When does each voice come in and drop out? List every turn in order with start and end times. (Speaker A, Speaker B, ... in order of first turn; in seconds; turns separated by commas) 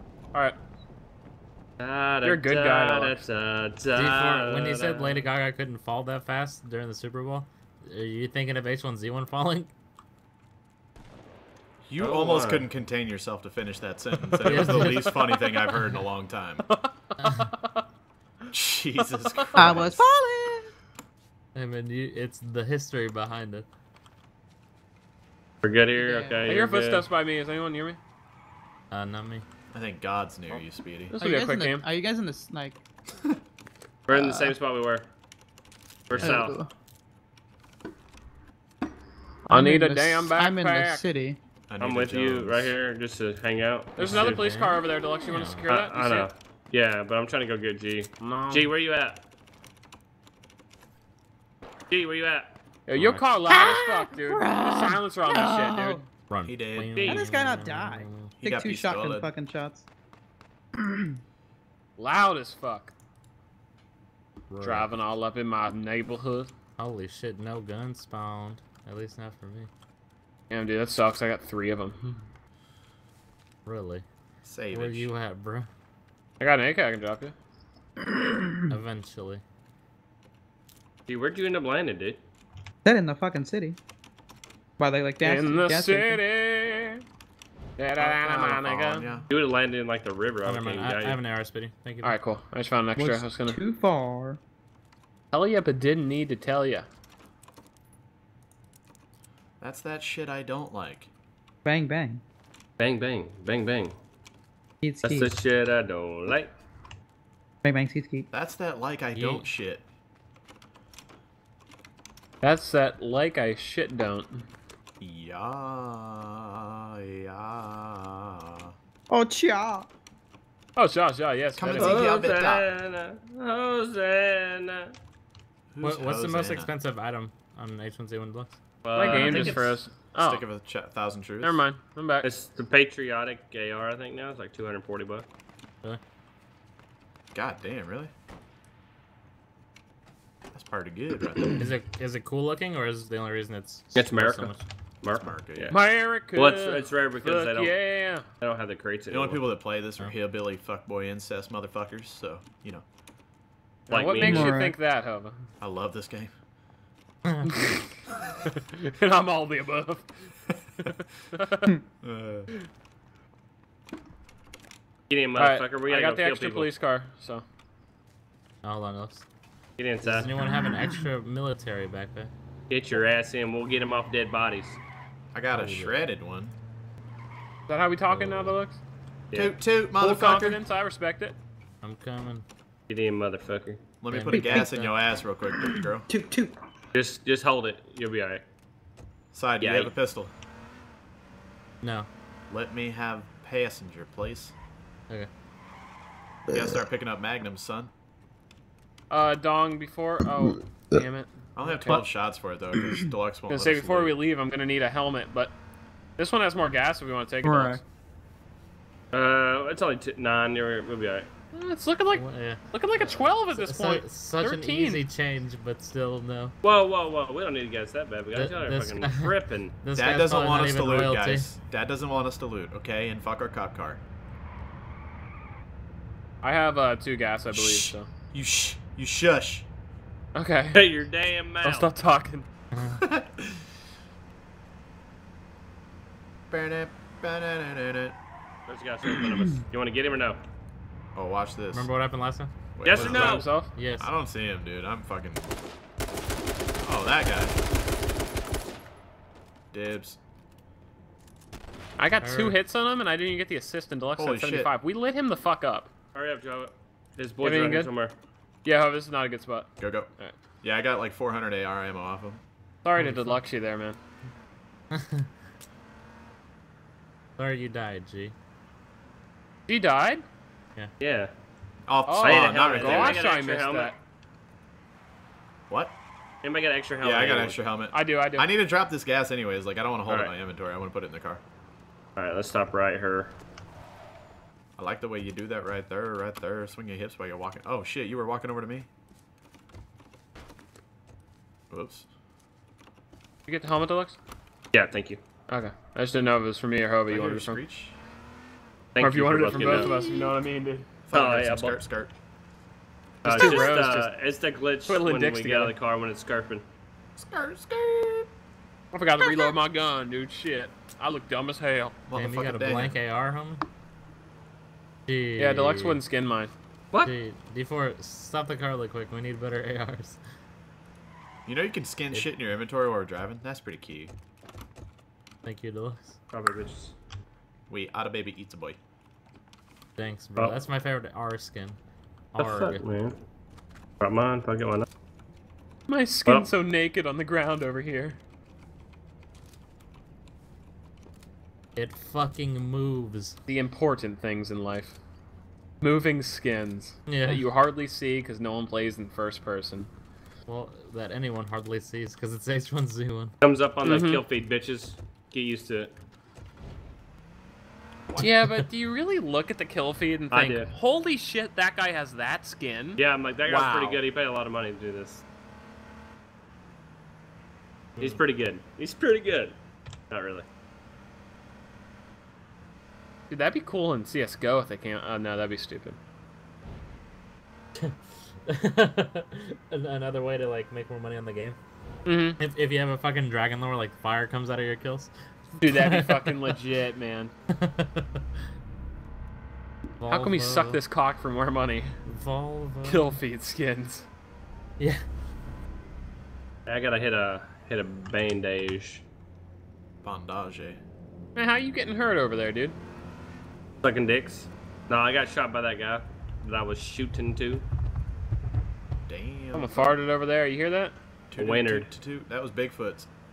Speaker A: 1.8-5.3, Speaker B: 2.2-3.3, Speaker C: 3.9-9.7, Speaker D: 11.9-16.7, Speaker A: 12.0-12.7, Speaker C: 14.4-15.2, Speaker B: 14.4-15.7, Speaker B: 16.7-17.8, Speaker C: 17.2-17.5, Speaker D: 18.5-20.0, Speaker B: 19.4-19.7, Speaker E: 19.6-20.7, Speaker C: 21.6-23.7, Speaker A: 25.6-27.1, Speaker E: 25.9-26.4, Speaker B: 26.4-28.0, Speaker C: 28.9-29.4, Speaker D: 29.7-31.2, Speaker B: 31.1-31.9, Speaker E: 31.2-32.8, Speaker A: 34.1-35.1, Speaker E: 34.1-34.5, Speaker A: 36.1-36.6, Speaker C: 36.1-36.4, Speaker E: 36.2-36.7, Speaker B: 39.5-41.1, Speaker E: 39.5-41.4, Speaker D: 41.7-42.7, Speaker A: 41.8-44.4, Speaker B: 44.0-46.3, Speaker C: 44.0-45.7, Speaker A: 45.7-49.2, Speaker B: 48.2-48.7, Speaker A: 51.9-52.5, Speaker B: 52.9-56.0, Speaker C: 53.0-53.3, Speaker E: 53.5-56.1, Speaker C: 56.3-58.3, Speaker D: 56.5-57.0, Speaker A: 57.0-57.3, Speaker E: 57.0-59.9, Speaker D: 58.4-59.3, Speaker E: 60.8-61.1, Speaker B: 62.0-62.9, Speaker C: 64.5-64.9, Speaker B: 64.6-66.5, Speaker C: 66.8-69.7, Speaker B: 70.5-72.2, Speaker C: 73.7-74.0, Speaker D: 74.4-75.1, Speaker C: 74.7-75.7, Speaker B: 76.4-77.3, Speaker C: 78.7-79.4, Speaker A: 81.1-82.2, Speaker E: 82.8-83.8, Speaker E: 84.8-86.2, Speaker B: 85.2-87.0, Speaker B: 87.8-89.1, Speaker D: 88.0-89.3, Speaker A: 89.3-91.2, Speaker C: 90.5-92.2, Speaker B: 92.0-93.6, Speaker E: 93.0-94.4, Speaker B: 95.3-96.9, Speaker D: 99.6-101.1, Speaker E: 101.7-102.2, Speaker A: 102.8-103.9, Speaker E: 104.8-105.3, Speaker A: 105.0-106.5, Speaker E: 107.6-108.3, Speaker D: 108.3-109.8, Speaker C: 109.2-109.5, Speaker B: 112.4-114.5, Speaker D: 115.0-118.7, Speaker E: 119.1-119.9, Speaker B: 120.8-122.0, Speaker D: 121.6-122.7, Speaker A: 121.8-124.9, Speaker D: 125.7-126.7, Speaker C: 125.8-129.6, Speaker A: 128.8-129.8, Speaker B: 128.9-130.4, Speaker D: 130.2-131.6, Speaker B: 131.4-132.3, Speaker A: 132.2-135.2, Speaker D: 137.3-138.1, Speaker D: 140.5-141.6, Speaker C: 141.6-144.6, Speaker A: 143.9-145.8, Speaker D: 145.2-145.7, Speaker B: 145.7-148.3, Speaker A: 146.3-147.8, Speaker A: 148.4-149.4, Speaker D: 149.1-152.8, Speaker A: 153.9-154.5, Speaker B: 153.9-155.4, Speaker C: 154.2-154.5, Speaker E: 154.2-154.8, Speaker D: 155.6-156.3, Speaker B: 157.5-157.9, Speaker B: 158.5-160.1, Speaker B: 160.8-161.7, Speaker D: 162.0-162.5, Speaker A: 165.1-166.7, Speaker B: 165.4-167.4, Speaker C: 168.6-169.2, Speaker A: 169.8-170.3, Speaker C: 170.0-172.3, Speaker A: 172.7-174.8, Speaker D: 175.3-176.5, Speaker A: 175.6-175.9, Speaker B: 177.7-178.8, Speaker C: 178.1-178.5, Speaker A: 179.3-179.6, Speaker D: 179.3-180.6, Speaker B: 180.0-181.4, Speaker C: 181.8-182.4, Speaker A: 182.9-183.8, Speaker D: 184.0-186.1, Speaker C: 184.1-185.0, Speaker E: 184.3-184.7, Speaker E: 185.5-186.5, Speaker A: 186.9-188.4, Speaker D: 189.3-190.3, Speaker A: 189.6-189.9, Speaker C: 191.8-192.1, Speaker D: 192.5-194.5, Speaker D: 196.5-197.9, Speaker B: 199.1-202.0, Speaker D: 201.6-204.2, Speaker B: 203.5-205.5, Speaker B: 206.2-207.8, Speaker E: 207.4-207.8, Speaker A: 209.1-211.3, Speaker B: 211.5-215.0, Speaker C: 212.2-216.6, Speaker A: 216.6-219.7, Speaker C: 218.3-221.5, Speaker D: 219.9-224.0, Speaker B: 226.4-228.1, Speaker D: 227.5-229.7, Speaker B: 230.3-230.8, Speaker A: 230.7-231.9, Speaker B: 231.6-232.5, Speaker C: 232.7-233.0, Speaker D: 233.0-233.6, Speaker D: 236.5-238.2, Speaker A: 238.7-240.4, Speaker D: 241.2-241.9, Speaker C: 241.7-244.1, Speaker D: 242.8-245.5, Speaker A: 242.8-243.6, Speaker B: 243.0-243.7, Speaker D: 246.8-247.6, Speaker D: 249.7-250.2, Speaker B: 252.0-255.9, Speaker C: 252.2-252.6, Speaker D: 254.2-254.7, Speaker A: 256.1-258.1, Speaker B: 257.4-257.9, Speaker B: 258.6-260.4, Speaker D: 259.8-260.1, Speaker D: 260.6-262.4, Speaker B: 262.8-264.0, Speaker C: 262.9-263.4, Speaker C: 264.9-265.3, Speaker C: 267.4-268.3, Speaker B: 269.7-270.2, Speaker A: 271.0-271.3, Speaker D: 271.9-273.2, Speaker B: 272.1-274.0, Speaker A: 272.2-274.0, Speaker D: 275.7-275.9, Speaker A: 276.4-277.6, Speaker D: 277.0-281.4, Speaker B: 277.9-278.6, Speaker A: 280.1-280.3, Speaker A: 282.2-283.3, Speaker D: 284.8-288.9, Speaker D: 291.7-292.1, Speaker B: 293.5-294.2, Speaker A: 294.7-295.2, Speaker B: 295.5-297.6, Speaker D: 297.1-298.0, Speaker A: 298.9-299.9, Speaker B: 299.0-300.9, Speaker D: 301.1-302.1, Speaker A: 301.1-301.8, Speaker B: 303.2-304.1, Speaker A: 303.2-306.6, Speaker B: 304.9-305.8, Speaker D: 307.2-308.3, Speaker B: 308.9-312.0, Speaker D: 312.1-313.0, Speaker C: 312.1-313.6, Speaker C: 315.1-316.0, Speaker B: 315.4-316.5, Speaker C: 317.0-320.2, Speaker D: 321.5-324.1, Speaker C: 325.4-326.2, Speaker A: 326.3-326.9, Speaker D: 327.7-328.8, Speaker C: 330.0-331.8, Speaker C: 332.3-332.8, Speaker A: 332.4-333.1, Speaker A: 334.0-334.9, Speaker B: 335.9-338.2, Speaker C: 341.8-343.4, Speaker B: 343.5-345.0, Speaker B: 345.8-349.9, Speaker C: 347.1-347.4, Speaker C: 350.5-353.3, Speaker A: 353.4-355.9, Speaker B: 353.8-354.2, Speaker B: 358.2-364.0, Speaker A: 360.3-360.7, Speaker A: 363.0-365.2, Speaker A: 368.0-369.6, Speaker A: 370.1-370.4, Speaker B: 373.3-376.0, Speaker C: 377.8-381.6, Speaker B: 382.1-382.4, Speaker C: 382.4-385.1, Speaker B: 385.6-387.3, Speaker C: 385.6-386.5, Speaker C: 387.6-388.2, Speaker C: 390.0-390.8, Speaker B: 390.1-391.9, Speaker C: 392.1-393.1, Speaker B: 392.9-394.1, Speaker A: 396.7-399.0, Speaker D: 400.0-400.8, Speaker B: 401.4-402.8, Speaker A: 403.8-407.6, Speaker D: 409.1-410.0, Speaker B: 409.5-410.9, Speaker D: 411.3-413.1, Speaker A: 411.4-411.9